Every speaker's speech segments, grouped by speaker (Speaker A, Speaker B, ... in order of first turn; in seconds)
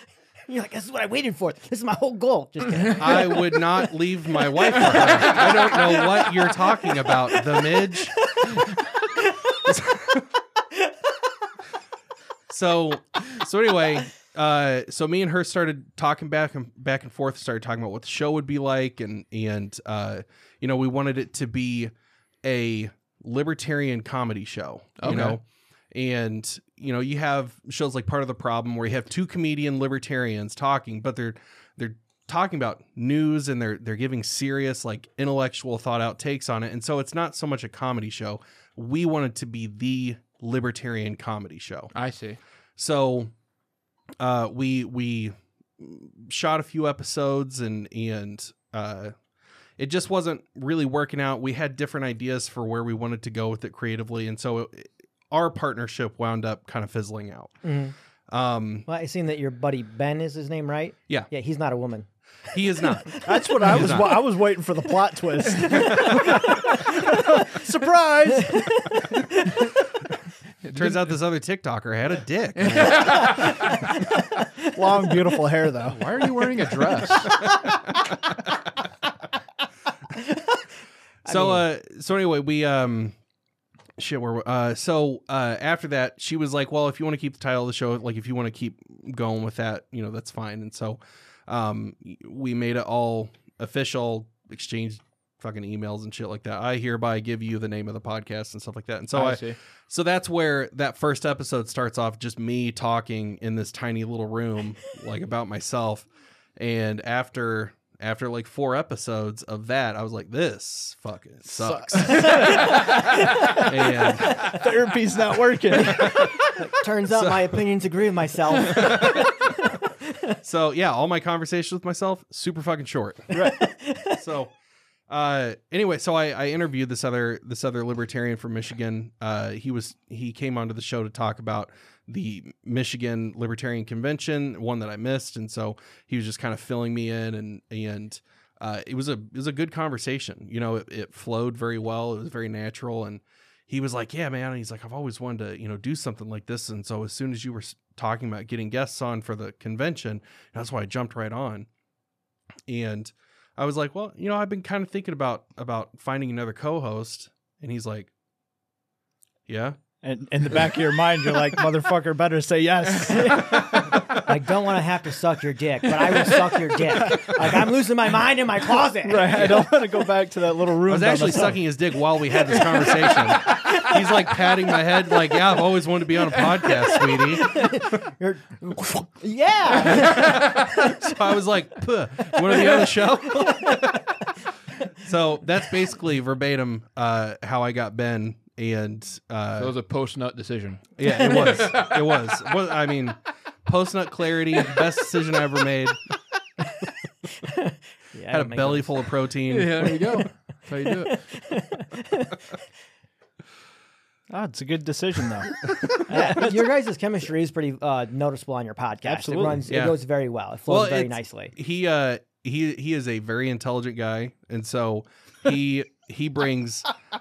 Speaker A: 0.5-3.6, 4.7-6.2, 8.3-9.7, 57.6-57.9, 58.9-62.1, 62.9-63.9, 65.7-67.2, 68.5-69.5, 73.2-74.0, 77.3-77.8, 80.1-80.6, 81.3-81.6, 112.1-113.7, 114.3-114.6, 115.8-120.3, 123.3-124.2, 163.1-169.5, 172.5-174.3, 176.7-181.1, 182.3-184.0, 191.1-191.6, 197.4-198.9, 200.0-200.3, 200.9-202.4, 206.1-211.5
Speaker B: 2.9-8.2, 9.7-10.2, 12.5-21.9, 22.4-41.9, 42.8-43.3, 44.2-49.1, 49.8-57.6, 58.3-58.9, 62.5-64.2, 70.8-73.2, 81.3-83.2, 84.0-114.6, 117.1-117.4, 118.7-119.3, 120.4-123.3, 124.1-124.5, 125.1-151.7, 152.7-158.1, 159.5-159.8, 169.3-169.7, 170.9-177.8, 179.8-184.1, 185.0-189.7, 191.0-196.0, 198.3-199.9, 209.7-210.0, 210.7-216.9
Speaker C: 25.0-25.4, 41.9-42.4, 70.6-71.2, 72.6-73.9, 75.9-77.4, 99.1-99.6, 189.6-192.4, 199.5-201.2
Speaker D: 63.2-68.9, 74.7-76.0, 112.1-112.7, 114.4-116.3, 123.3-123.6, 160.0-164.0, 167.0-167.4, 169.0-171.6, 204.3-206.6, 209.0-209.7